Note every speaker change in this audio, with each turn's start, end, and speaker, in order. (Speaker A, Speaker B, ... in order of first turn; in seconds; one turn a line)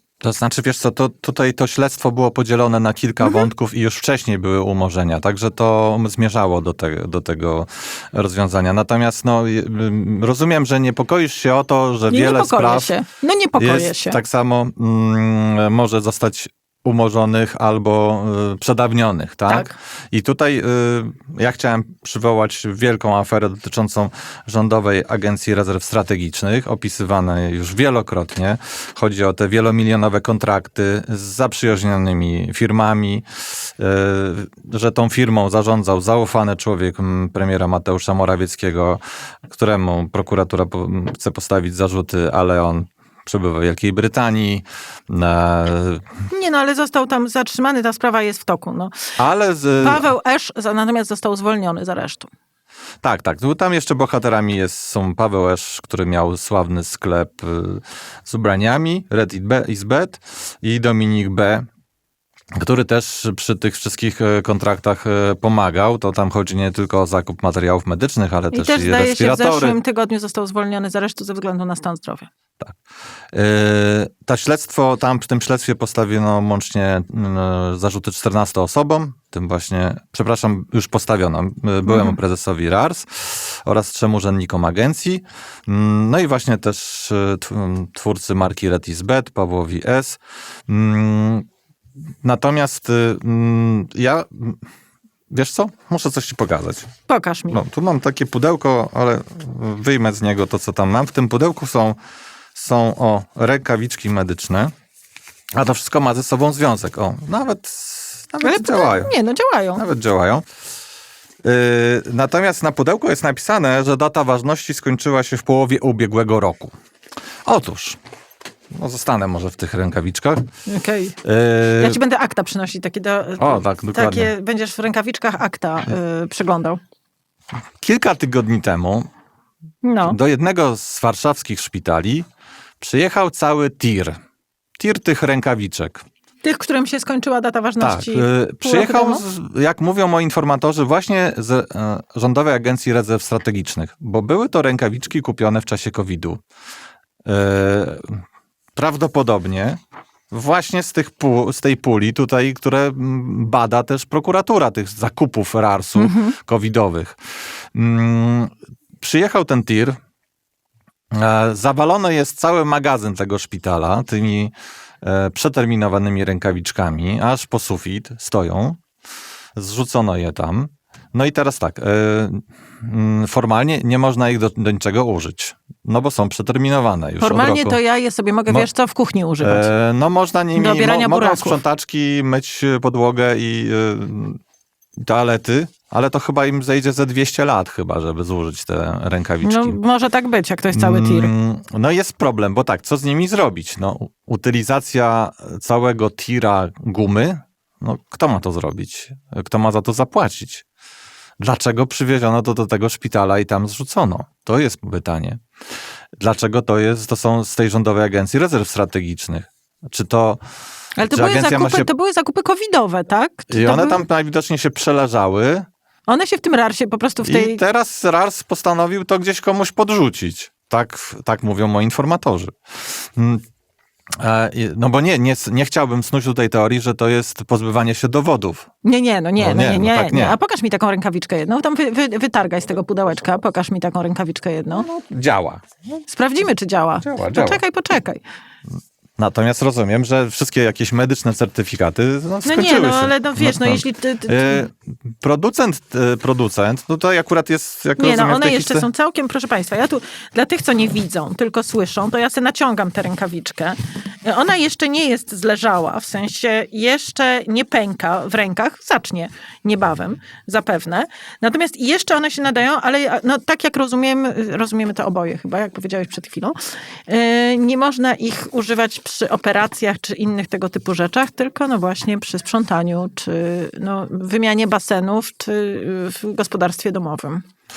Speaker A: 0.2-12.9
Speaker B: 12.1-14.2
Speaker A: 13.6-46.1
Speaker B: 19.5-19.8
Speaker B: 46.3-48.9
Speaker A: 49.2-50.1
Speaker B: 49.8-52.3
Speaker A: 53.0-61.6
Speaker A: 62.5-69.8
Speaker B: 68.5-72.3
Speaker A: 73.3-91.5
Speaker B: 81.9-82.2
Speaker A: 92.2-94.6
Speaker A: 95.3-96.9
Speaker B: 97.1-97.6
Speaker A: 97.5-102.0
Speaker A: 102.5-104.7
Speaker A: 105.5-109.1
Speaker B: 108.4-109.8
Speaker A: 109.8-110.4
Speaker A: 111.4-116.7
Speaker A: 117.5-118.0
Speaker A: 118.7-120.5
Speaker B: 120.7-121.2
Speaker A: 121.2-122.0
Speaker B: 121.8-126.8
Speaker A: 123.4-124.3
Speaker A: 127.8-129.1
Speaker B: 129.8-130.2
Speaker A: 130.0-132.3
Speaker A: 132.8-134.2
Speaker A: 134.8-136.0
Speaker B: 136.4-139.2
Speaker A: 137.8-146.4
Speaker A: 147.2-148.2
Speaker A: 148.8-149.8
Speaker A: 150.3-157.2
Speaker B: 156.0-156.3
Speaker A: 157.7-160.0
Speaker A: 161.1-168.8
Speaker A: 169.6-177.8
Speaker B: 177.2-179.7
Speaker A: 179.4-184.4
Speaker B: 180.6-181.6
Speaker A: 185.0-189.8
Speaker B: 189.4-191.3
Speaker A: 190.7-200.7
Speaker A: 201.4-205.4
Speaker A: 206.2-210.4
Speaker B: 211.0-214.0
Speaker A: 211.1-211.9
Speaker A: 213.5-215.7
Speaker B: 216.1-217.6
Speaker A: 217.2-223.4
Speaker A: 224.1-228.7
Speaker B: 228.8-234.9
Speaker A: 229.4-230.3
Speaker A: 234.8-235.7
Speaker B: 236.1-238.2
Speaker A: 237.0-237.6
Speaker A: 239.2-248.9
Speaker B: 242.4-244.7
Speaker B: 248.0-266.5
Speaker B: 267.1-277.4